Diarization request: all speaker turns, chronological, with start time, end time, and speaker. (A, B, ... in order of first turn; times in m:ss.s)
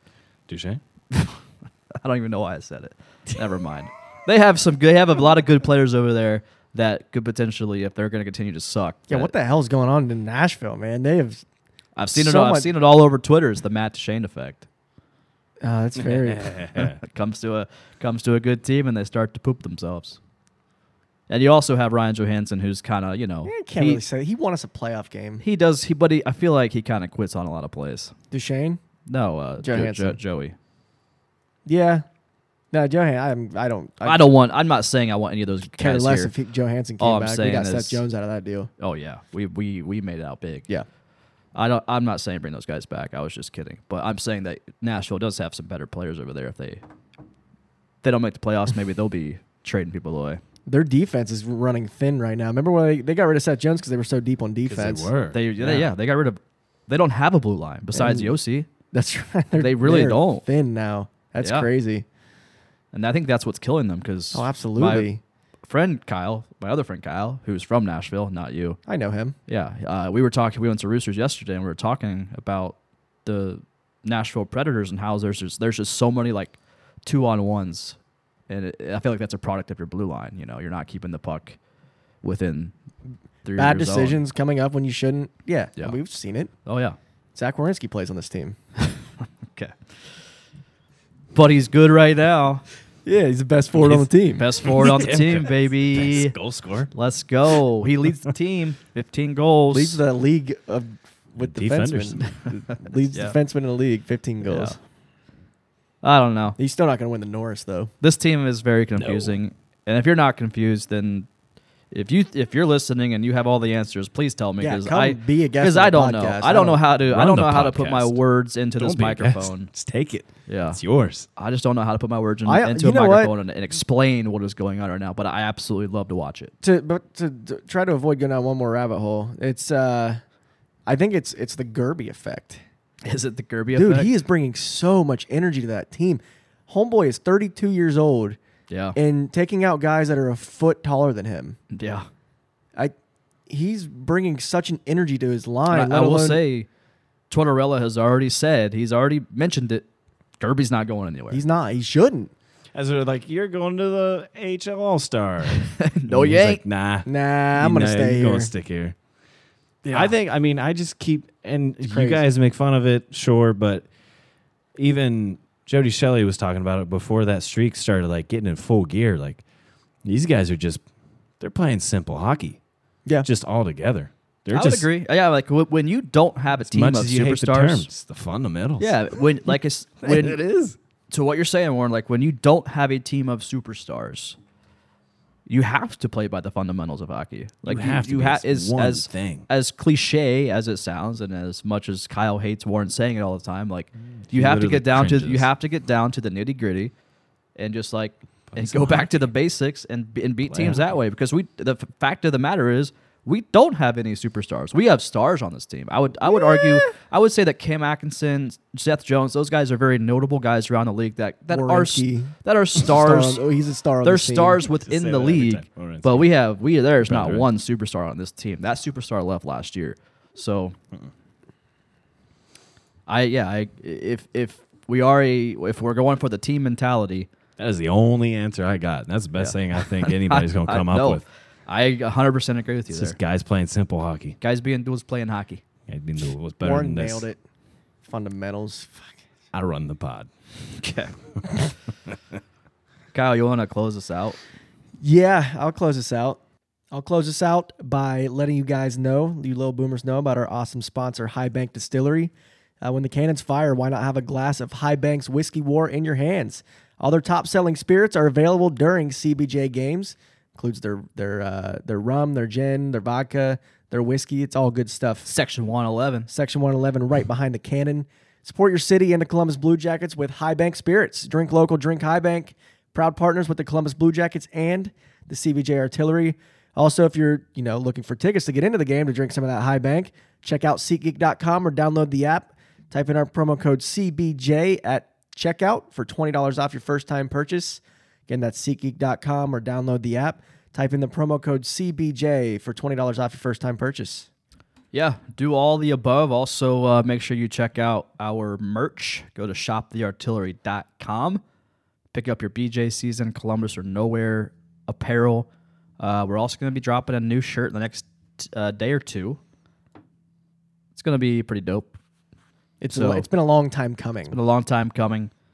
0:00.5-0:00.8 A
0:01.1-0:01.4 B
0:02.0-0:09.3 B
0:09.1-0:11.4 C
0:12.0-0:14.7 B
0:12.2-0:12.7 C
0:15.6-0:16.5 C
0:16.0-0:17.0 A
0:16.8-0:20.2 B
0:21.3-0:24.0 B
0:23.4-0:25.4 C
0:25.4-0:28.1 B
0:28.3-0:28.8 C
0:29.1-0:30.6 B
0:29.6-0:30.2 C
0:31.7-0:32.0 C
0:32.7-0:34.3 C
0:34.0-0:36.3 B
0:35.8-0:38.7 C
0:37.0-0:38.0 B
0:38.8-0:40.7 B
0:41.6-0:46.8 B
0:48.0-0:50.4 B
0:50.7-0:55.9 C
0:54.7-0:55.4 A
0:55.3-0:58.7 B
0:58.0-0:58.4 C
0:58.9-1:02.0 C
0:59.5-1:00.4 B
1:01.4-1:01.7 B
1:02.9-1:05.1 B
1:04.3-1:05.2 C
1:05.7-1:08.8 B
1:08.9-1:09.4 C
1:09.5-1:18.0 B
1:18.5-1:21.6 B
1:22.2-1:22.7 B
1:23.4-1:24.2 B
1:23.6-1:26.5 C
1:26.6-1:27.0 B
1:27.4-1:28.6 C
1:28.8-1:30.1 B
1:31.3-1:32.6 B
1:33.0-1:34.7 C
1:33.8-1:36.4 B
1:34.8-1:36.9 A
1:36.9-1:40.0 B
1:39.7-1:44.8 C
1:41.4-1:42.3 A
1:44.4-1:44.8 B
1:46.0-1:46.6 B
1:46.6-1:47.9 C
1:48.0-1:51.3 B
1:49.0-1:49.4 A
1:51.9-1:59.7 B
1:54.6-1:56.8 C
1:57.1-1:58.2 A
1:58.8-2:01.3 A
2:00.5-2:00.8 B
2:01.4-2:06.5 B
2:02.5-2:03.3 C
2:06.6-2:10.2 C
2:10.9-2:12.6 C
2:13.0-2:14.1 B
2:13.8-2:18.4 C
2:18.7-2:19.0 B
2:19.0-2:21.6 C
2:21.7-2:22.1 B
2:23.5-2:26.4 C
2:25.7-2:26.7 B
2:27.3-2:29.8 B
2:30.4-2:31.4 B
2:31.3-2:32.3 C
2:32.7-2:39.0 A
2:35.6-2:36.6 B
2:37.1-2:38.5 C
2:39.8-2:40.1 C
2:39.9-2:43.9 A
2:41.8-2:42.2 C
2:44.8-2:49.4 A
2:50.0-2:50.8 A
2:51.4-2:52.6 A
2:53.2-2:54.9 A
2:54.5-2:57.9 B
2:56.7-2:59.2 A
2:58.8-3:00.4 B
3:00.0-3:00.8 A
3:01.1-3:04.4 B
3:05.5-3:16.9 B
3:07.6-3:09.5 A
3:14.3-3:15.5 A
3:17.6-3:33.4 B
3:18.5-3:19.1 A
3:20.5-3:20.8 A
3:31.5-3:34.6 C
3:34.0-3:40.8 B
3:34.8-3:36.3 A
3:37.0-3:37.5 A
3:43.1-3:47.3 B
3:47.6-3:51.2 A
3:49.4-3:53.2 B
3:52.9-3:54.4 A
3:54.4-3:55.6 B
3:55.9-3:57.3 A
3:56.6-3:57.4 C
3:58.0-3:59.2 C
3:59.5-4:00.3 A
4:00.7-4:01.1 B
4:03.1-4:04.4 B
4:05.0-4:06.4 C
4:06.9-4:25.3 C
4:25.3-4:26.3 B
4:26.3-4:54.3 C
4:54.9-5:01.4 B
5:02.1-5:05.5 B
5:06.0-5:09.4 B
5:11.0-5:12.0 B
5:12.8-5:14.4 C
5:12.9-5:13.3 B
5:14.3-5:15.3 B